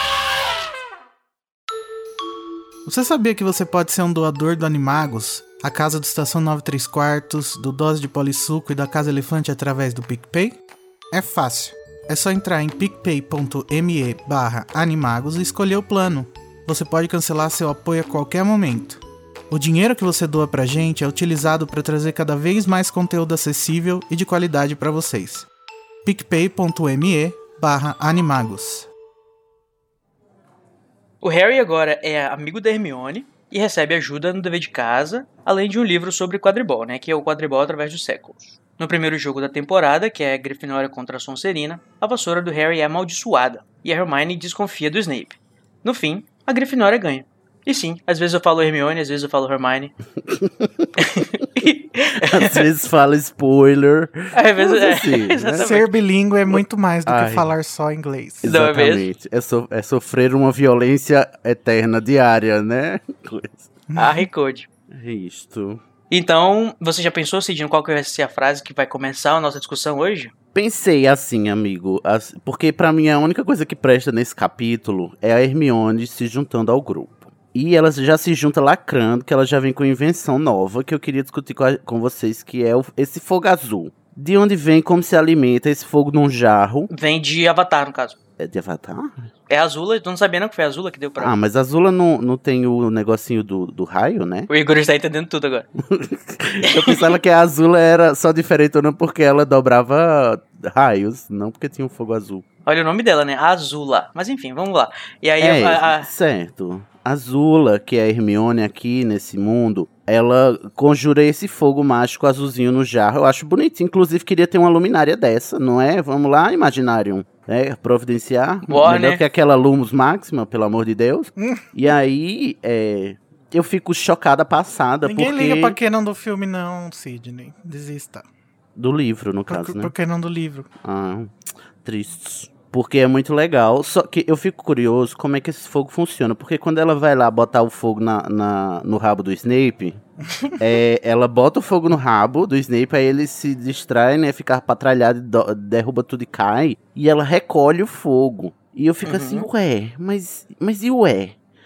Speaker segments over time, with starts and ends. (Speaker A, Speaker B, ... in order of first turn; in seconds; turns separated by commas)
Speaker A: 2.9-10.6, Speaker A: 11.1-25.4, Speaker A: 26.0-28.9, Speaker B: 31.2-49.9, Speaker C: 50.2-50.9, Speaker B: 51.0-52.6, Speaker C: 52.2-55.7, Speaker B: 54.3-55.9, Speaker A: 55.6-58.4, Speaker C: 56.5-57.5, Speaker C: 58.4-63.7, Speaker B: 58.4-59.0, Speaker A: 63.9-64.2, Speaker B: 63.9-64.7, Speaker C: 64.9-65.8, Speaker B: 66.1-70.3, Speaker C: 70.5-86.9, Speaker B: 86.9-88.2, Speaker C: 88.4-89.1, Speaker B: 89.5-91.3, Speaker C: 91.2-94.5, Speaker B: 94.5-95.7, Speaker C: 95.9-102.4, Speaker B: 96.7-97.0, Speaker B: 102.7-106.1, Speaker C: 105.4-125.8, Speaker B: 118.7-119.2, Speaker A: 125.0-128.2, Speaker C: 128.8-129.9, Speaker A: 129.5-130.7, Speaker C: 130.8-140.0, Speaker C: 140.6-151.4, Speaker B: 149.0-149.5